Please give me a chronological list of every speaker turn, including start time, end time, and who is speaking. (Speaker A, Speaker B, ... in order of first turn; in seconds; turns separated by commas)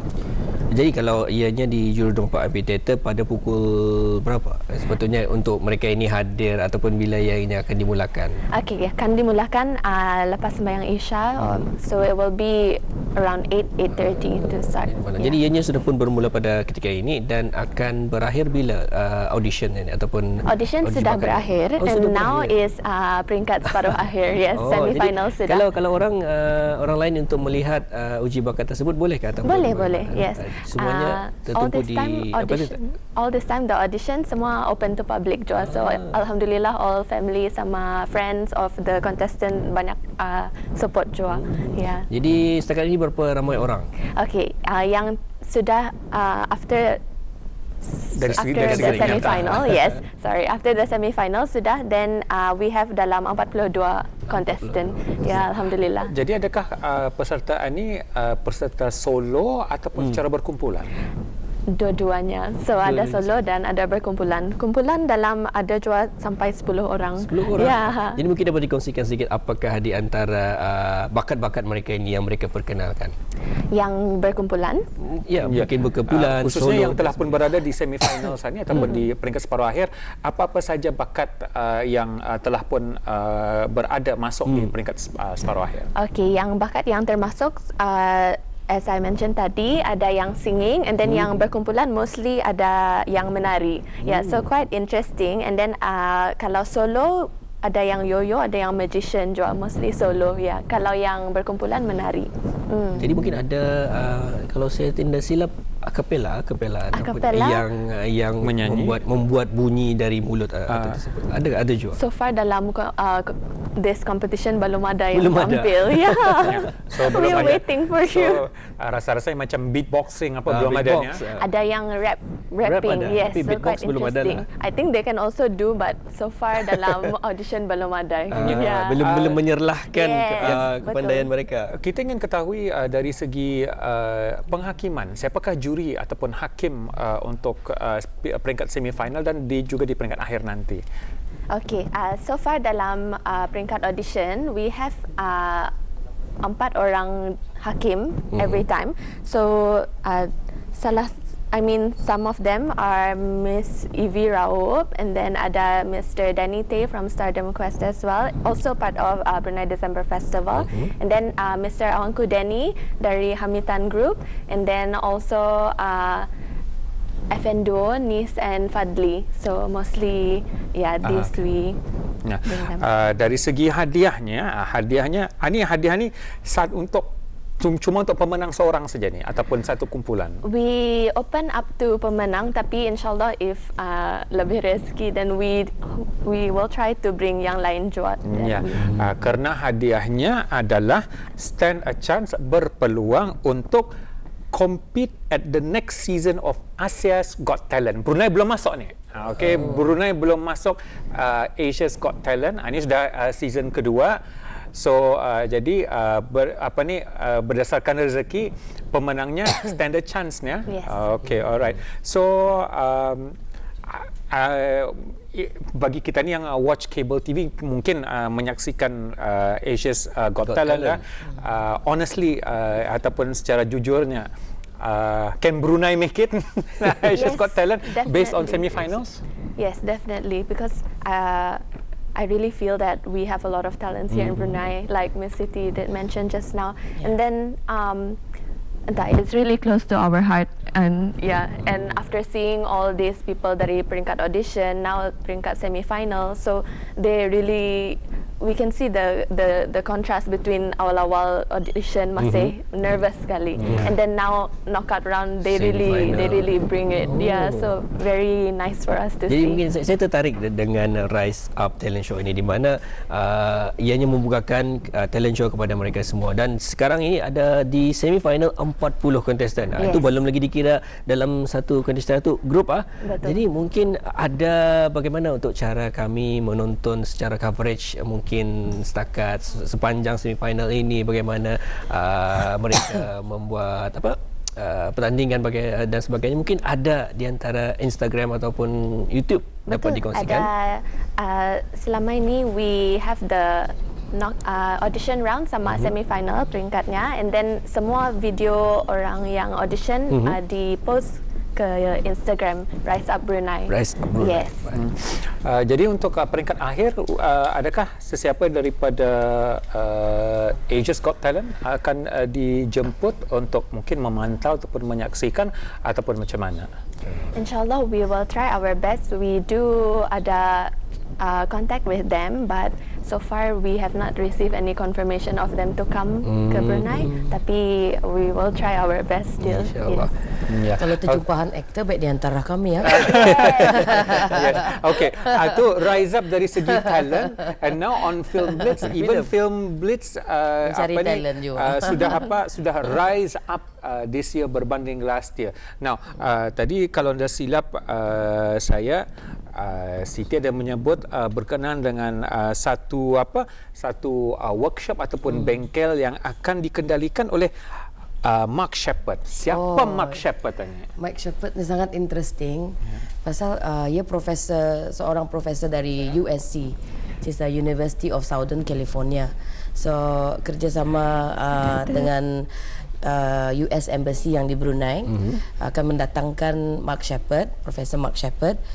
Speaker A: 0.7-8.4, Speaker B: 8.5-15.4, Speaker A: 11.4-11.7, Speaker A: 14.0-22.6, Speaker B: 20.5-25.7, Speaker A: 23.7-24.0, Speaker A: 24.5-32.8, Speaker B: 29.4-42.1, Speaker A: 35.6-36.1, Speaker A: 41.3-43.9, Speaker B: 44.2-47.0, Speaker B: 48.0-56.1, Speaker C: 48.1-49.8, Speaker A: 48.4-50.0, Speaker A: 54.3-55.6, Speaker C: 56.1-60.9, Speaker B: 61.7-68.2, Speaker A: 62.8-63.3, Speaker A: 67.2-73.2, Speaker B: 73.7-74.9, Speaker A: 75.0-77.4, Speaker C: 75.4-85.9, Speaker B: 78.8-79.0, Speaker A: 84.5-84.7, Speaker B: 86.0-103.1, Speaker A: 91.0-91.3, Speaker A: 94.0-94.4, Speaker A: 103.0-112.0, Speaker B: 106.9-107.7, Speaker C: 108.4-109.0, Speaker C: 110.7-111.0, Speaker B: 112.0-118.4, Speaker A: 115.1-117.5, Speaker C: 116.4-121.2, Speaker A: 120.5-121.5, Speaker B: 121.4-129.1, Speaker A: 122.6-124.4, Speaker A: 126.7-127.1, Speaker A: 128.3-131.7, Speaker C: 128.4-129.4, Speaker B: 129.9-131.3, Speaker C: 130.4-130.7, Speaker C: 131.7-140.8, Speaker B: 141.5-145.7, Speaker B: 146.4-166.3, Speaker A: 148.3-148.6, Speaker A: 160.5-160.9, Speaker B: 167.3-171.8, Speaker C: 171.1-171.3, Speaker C: 172.2-180.4, Speaker B: 172.5-172.8, Speaker B: 180.4-188.9, Speaker C: 188.3-193.9, Speaker A: 188.8-189.1, Speaker C: 194.5-204.2, Speaker C: 204.7-213.3, Speaker B: 210.7-211.0, Speaker C: 213.9-224.3, Speaker A: 220.4-221.0, Speaker C: 224.8-229.2, Speaker B: 227.1-228.6, Speaker B: 229.6-231.6, Speaker B: 232.2-238.2, Speaker A: 234.1-234.6, Speaker B: 238.9-259.6, Speaker A: 252.2-252.5, Speaker C: 253.6-253.9, Speaker A: 253.6-253.9, Speaker A: 255.5-257.7, Speaker A: 259.3-290.5, Speaker B: 269.8-270.2, Speaker B: 273.0-273.4, Speaker B: 289.7-304.6, Speaker A: 295.7-295.9, Speaker A: 300.1-300.4, Speaker A: 303.7-304.8, Speaker C: 304.7-316.7, Speaker B: 317.3-330.1, Speaker A: 326.2-327.1, Speaker D: 327.0-327.3, Speaker A: 329.4-330.1, Speaker C: 330.5-331.2, Speaker D: 330.7-335.6, Speaker C: 332.8-357.5, Speaker B: 333.2-334.0, Speaker D: 336.7-337.5, Speaker A: 338.8-339.3, Speaker D: 340.6-342.2, Speaker C: 358.2-360.9, Speaker D: 359.5-360.2, Speaker D: 361.0-372.5, Speaker D: 373.0-378.6, Speaker A: 375.1-375.4